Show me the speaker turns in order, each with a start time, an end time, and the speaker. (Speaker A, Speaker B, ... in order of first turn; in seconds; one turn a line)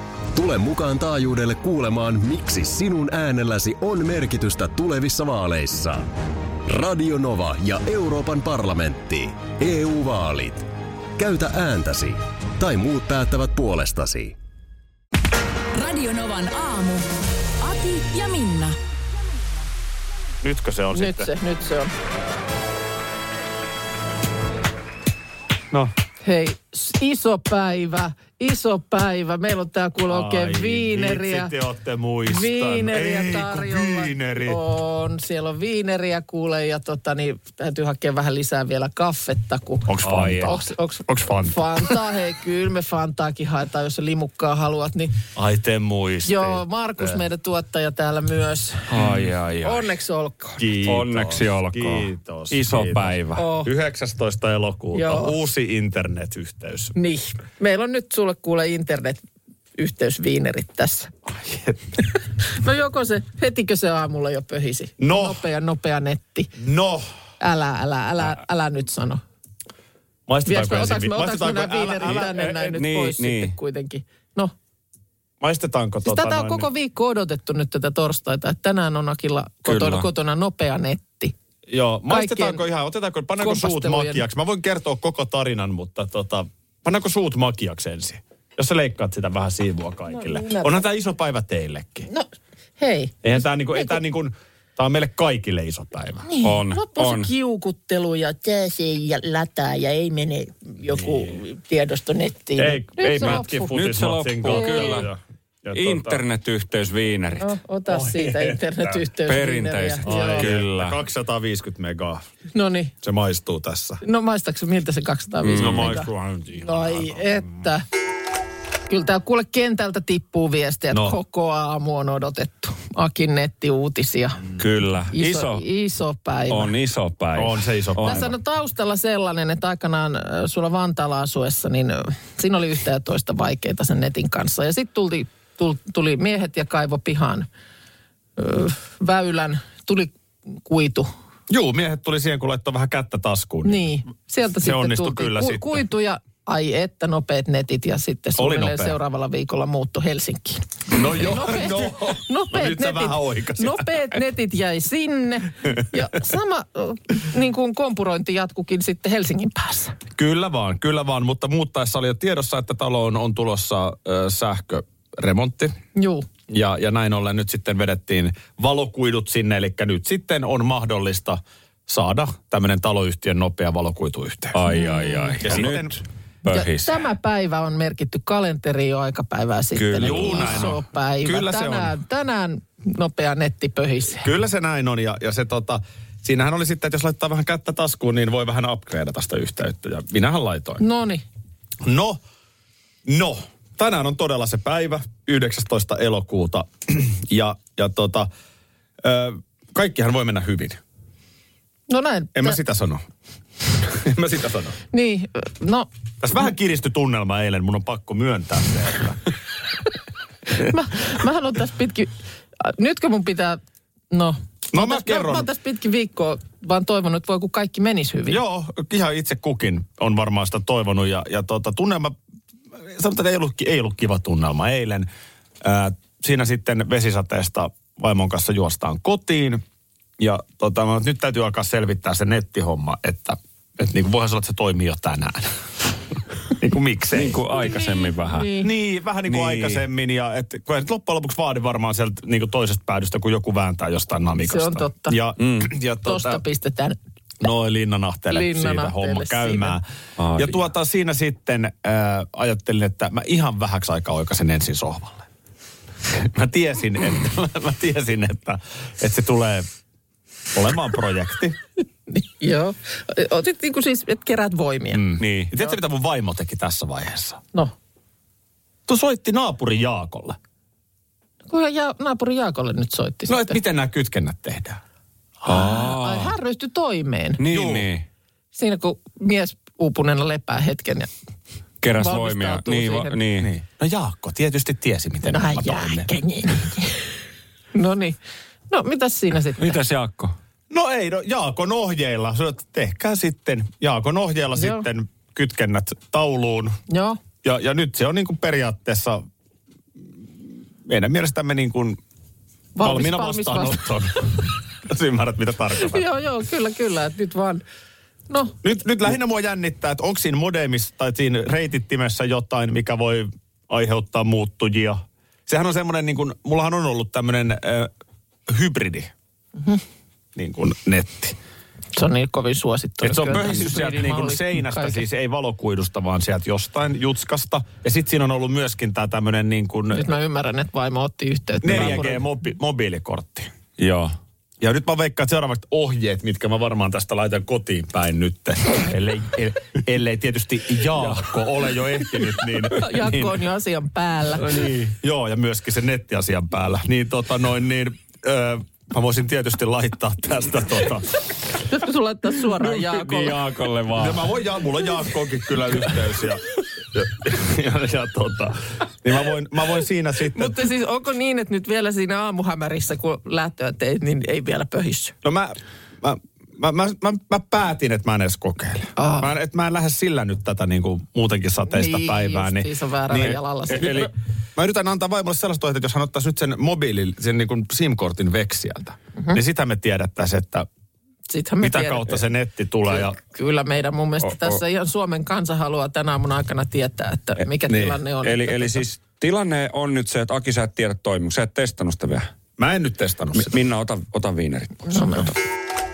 Speaker A: 0.3-6.1
Speaker A: 6.7-14.3
Speaker B: 15.7-17.1
Speaker B: 17.6-18.8
Speaker C: 20.4-21.3
Speaker D: 20.9-21.9
Speaker D: 26.2-31.5
Speaker C: 30.1-34.6
Speaker D: 32.2-45.2
Speaker C: 39.9-42.0
Speaker E: 40.0-40.6
Speaker C: 45.3-47.2
Speaker D: 46.2-50.6
Speaker E: 48.9-49.9
Speaker C: 50.6-56.9
Speaker E: 50.8-53.5
Speaker D: 53.4-53.7
Speaker D: 54.9-55.4
Speaker D: 57.0-59.2
Speaker D: 59.8-61.1
Speaker C: 61.2-61.9
Speaker D: 62.2-66.5
Speaker C: 65.0-65.4
Speaker C: 66.6-67.1
Speaker D: 67.4-69.2
Speaker C: 70.3-72.8
Speaker D: 70.4-74.5
Speaker E: 72.7-73.5
Speaker C: 75.4-76.7
Speaker D: 76.0-81.3
Speaker E: 79.7-80.1
Speaker C: 81.7-92.1
Speaker D: 82.1-82.6
Speaker D: 83.4-84.2
Speaker D: 90.1-90.9
Speaker D: 92.1-93.2
Speaker C: 93.2-96.3
Speaker D: 93.7-94.0
Speaker D: 96.3-103.7
Speaker E: 96.4-97.3
Speaker C: 101.0-101.4
Speaker C: 102.6-106.2
Speaker E: 103.2-105.1
Speaker D: 104.5-105.1
Speaker E: 105.7-107.6
Speaker D: 107.4-110.5
Speaker C: 107.9-109.0
Speaker E: 109.2-111.0
Speaker C: 110.0-112.2
Speaker D: 112.5-112.9
Speaker C: 113.0-114.0
Speaker D: 114.0-117.8
Speaker E: 115.4-116.1
Speaker C: 115.6-117.4
Speaker D: 118.9-124.5
Speaker C: 120.9-121.2
Speaker E: 124.6-125.6
Speaker D: 125.1-126.7
Speaker E: 126.5-128.3
Speaker C: 127.3-128.3
Speaker D: 128.0-137.5
Speaker D: 138.4-141.1
Speaker C: 141.5-143.9
Speaker D: 143.6-159.9
Speaker C: 144.6-145.8
Speaker C: 148.4-149.0
Speaker C: 150.9-154.1
Speaker C: 160.2-165.7
Speaker D: 165.9-166.3
Speaker C: 166.5-174.6
Speaker E: 174.5-177.0
Speaker D: 174.7-175.6
Speaker C: 175.4-176.0
Speaker D: 176.5-184.3
Speaker E: 179.7-180.8
Speaker C: 179.9-181.9
Speaker C: 184.2-190.8
Speaker D: 190.8-191.2
Speaker C: 191.8-192.2
Speaker C: 193.0-198.3
Speaker C: 199.0-200.8
Speaker D: 201.9-202.6
Speaker C: 202.3-203.0
Speaker C: 203.7-204.8
Speaker D: 204.9-205.9
Speaker C: 206.2-209.3
Speaker D: 210.5-213.6
Speaker D: 214.1-218.4
Speaker C: 214.7-215.5
Speaker C: 218.3-222.1
Speaker C: 222.8-225.1
Speaker C: 225.6-229.6
Speaker C: 230.2-235.5
Speaker C: 236.4-237.4
Speaker E: 237.1-238.6
Speaker D: 237.5-238.7
Speaker C: 238.6-246.4
Speaker E: 239.3-239.8
Speaker D: 244.4-245.2
Speaker E: 245.4-245.7
Speaker D: 246.0-247.0
Speaker C: 247.4-255.3
Speaker D: 248.3-249.8
Speaker E: 250.2-250.6
Speaker C: 256.1-259.7
Speaker C: 260.5-261.6
Speaker D: 262.1-265.0
Speaker C: 264.9-267.4
Speaker E: 265.2-265.7
Speaker C: 268.9-270.4
Speaker D: 271.5-273.6
Speaker C: 273.3-274.8
Speaker D: 275.4-277.4
Speaker E: 275.5-276.4
Speaker E: 277.4-278.0
Speaker C: 277.4-277.9
Speaker D: 278.5-281.1
Speaker E: 281.8-283.5
Speaker D: 282.0-283.1
Speaker C: 283.4-286.1
Speaker D: 285.3-287.0
Speaker D: 287.7-288.2
Speaker D: 288.7-289.8
Speaker E: 289.6-290.3
Speaker C: 290.7-296.8
Speaker D: 294.5-294.9
Speaker D: 296.9-297.2
Speaker C: 297.4-299.2
Speaker C: 300.2-302.0
Speaker D: 302.8-303.9
Speaker C: 302.8-306.1
Speaker D: 305.8-307.6
Speaker D: 308.3-308.6
Speaker C: 308.6-317.9
Speaker C: 318.5-319.1
Speaker C: 320.4-321.4
Speaker D: 321.9-325.0
Speaker C: 323.0-330.1
Speaker D: 329.9-332.2
Speaker C: 331.6-333.5
Speaker E: 331.7-332.0
Speaker E: 333.8-334.1
Speaker C: 334.6-343.4
Speaker E: 341.0-341.3
Speaker D: 342.7-344.7
Speaker E: 344.4-344.9
Speaker C: 344.8-351.4
Speaker D: 351.7-353.4
Speaker E: 352.6-354.3
Speaker C: 353.9-360.6
Speaker D: 360.3-365.1
Speaker C: 365.2-380.7
Speaker D: 368.9-369.3
Speaker D: 371.7-374.1
Speaker E: 373.7-374.1
Speaker D: 381.3-382.2
Speaker C: 381.6-383.2
Speaker D: 382.9-388.8
Speaker E: 387.7-392.3
Speaker C: 392.6-393.5
Speaker E: 393.4-395.3
Speaker D: 394.9-395.3